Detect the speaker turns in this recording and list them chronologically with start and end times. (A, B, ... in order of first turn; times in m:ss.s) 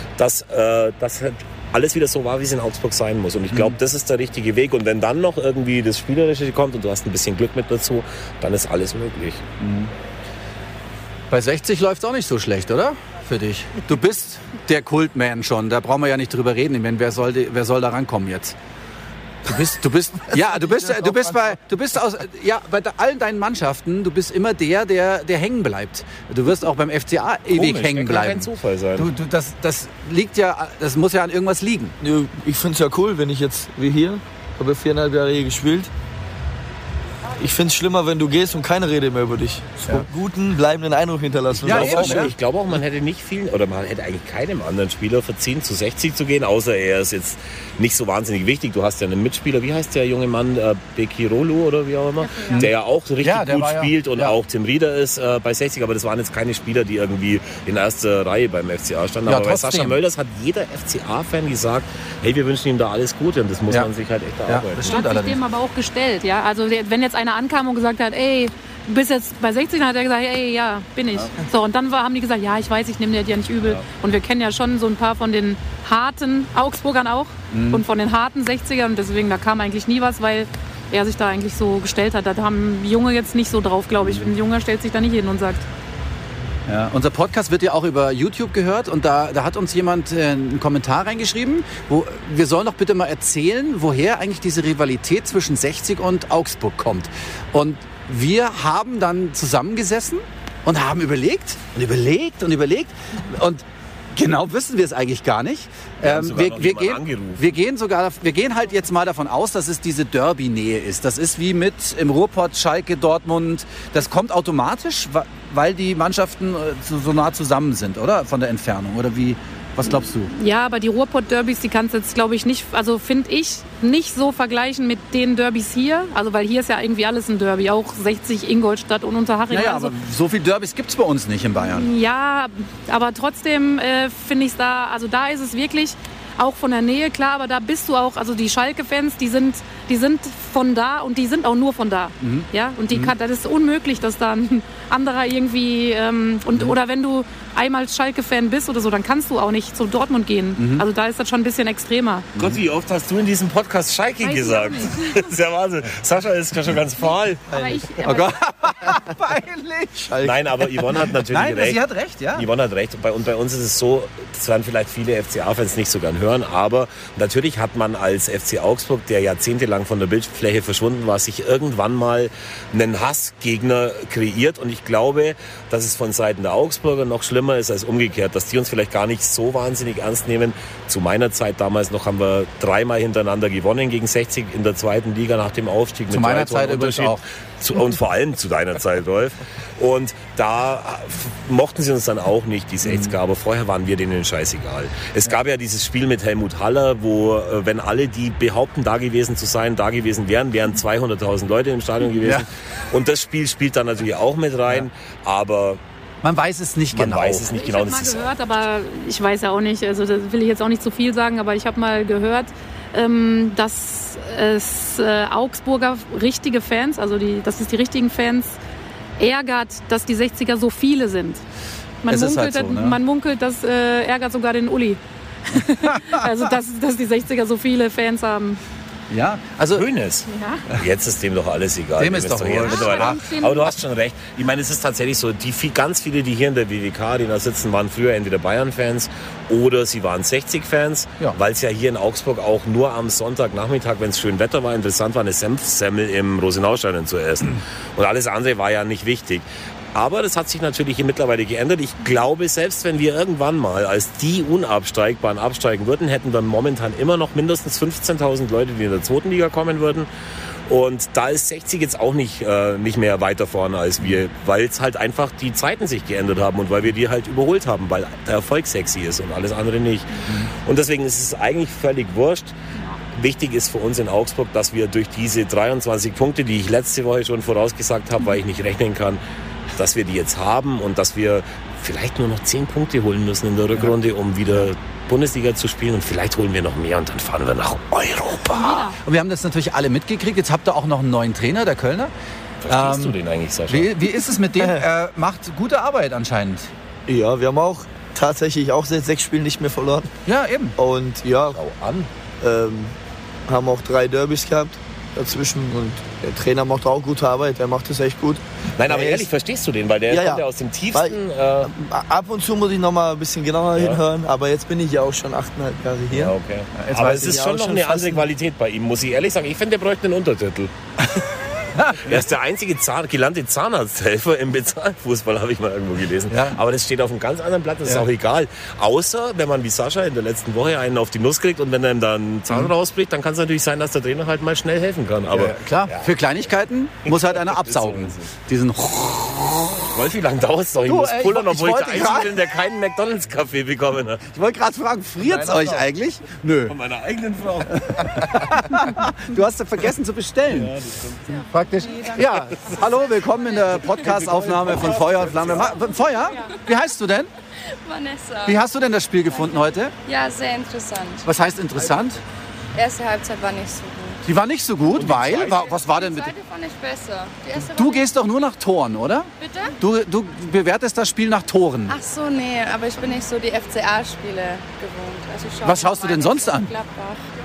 0:00.2-0:09.4 A
0:09.6-0:09.9 B
0:11.3-0:18.5 B
0:19.4-0:31.9 B
0:20.7-0:21.3 C
0:27.5-0:29.1 A
0:32.0-0:35.9 C
0:37.4-0:42.3 C
0:41.6-0:42.3 B
0:41.6-1:05.0 A
0:52.2-0:52.7 D
0:53.2-0:54.4 B
0:59.2-1:00.0 B
1:04.5-1:05.4 B
1:04.8-1:25.6 D
1:17.5-1:17.8 B
1:24.0-1:24.3 B
1:26.7-1:43.6 B
1:44.1-2:00.3 B
1:46.0-1:47.5 A
2:00.3-2:09.9 D
2:09.5-2:11.9 B
2:11.6-2:32.3 D
2:22.2-2:23.1 B
2:30.6-2:30.8 B
2:32.4-2:37.4 A
2:34.2-2:35.3 D
2:37.0-2:38.4 D
2:37.5-2:38.0 C
2:38.0-2:40.0 B
2:39.9-2:40.7 C
2:40.2-2:41.8 A
2:41.3-2:42.4 B
2:42.3-3:25.8 A
3:06.1-3:07.2 B
3:12.8-3:13.1 B
3:26.2-3:27.5 B
3:26.9-3:28.3 A
3:27.5-3:38.6 D
3:39.2-3:41.4 D
3:42.0-3:48.6 D
3:42.1-3:43.0 B
3:49.1-3:49.8 B
3:49.7-4:20.1 A
3:50.3-3:50.6 D
3:52.0-3:53.2 B
3:52.6-3:53.8 D
4:20.7-4:32.5 A
4:33.1-4:39.2 A
4:39.7-4:48.9 A
4:48.5-4:49.0 D
4:49.0-4:52.1 B
4:52.6-4:53.9 A
4:52.7-4:53.2 B
4:53.7-4:56.7 B
4:54.6-4:54.8 C
4:57.1-5:00.1 C
5:00.2-5:00.7 B
5:00.8-5:01.6 C
5:01.5-5:02.1 A
5:02.4-5:02.9 C
5:03.5-5:09.3 C
5:08.8-5:11.7 A
5:10.1-5:16.3 C
5:13.8-5:14.0 A
5:16.1-5:20.7 A
5:16.8-5:17.6 B
5:17.2-5:18.2 C
5:21.8-5:22.1 B
5:21.9-5:36.1 A
5:26.3-5:26.6 B
5:35.3-5:39.9 B
5:37.1-5:38.3 A
5:39.9-5:44.2 A
5:40.8-5:42.4 B
5:44.3-5:46.8 B
5:45.2-5:45.9 C
5:46.6-5:48.6 A
5:47.7-5:50.7 B
5:50.5-5:51.4 A
5:51.5-5:57.3 B
5:53.7-5:55.8 A
5:57.8-5:58.6 E
5:58.4-5:59.9 B
5:59.3-6:01.2 E
6:01.2-6:02.2 B
6:02.7-6:04.2 E
6:04.2-6:06.3 B
6:04.9-6:05.7 A
6:05.7-6:08.1 E
6:07.8-6:12.0 B
6:09.4-6:09.7 E
6:11.9-6:17.2 E
6:15.6-6:16.7 B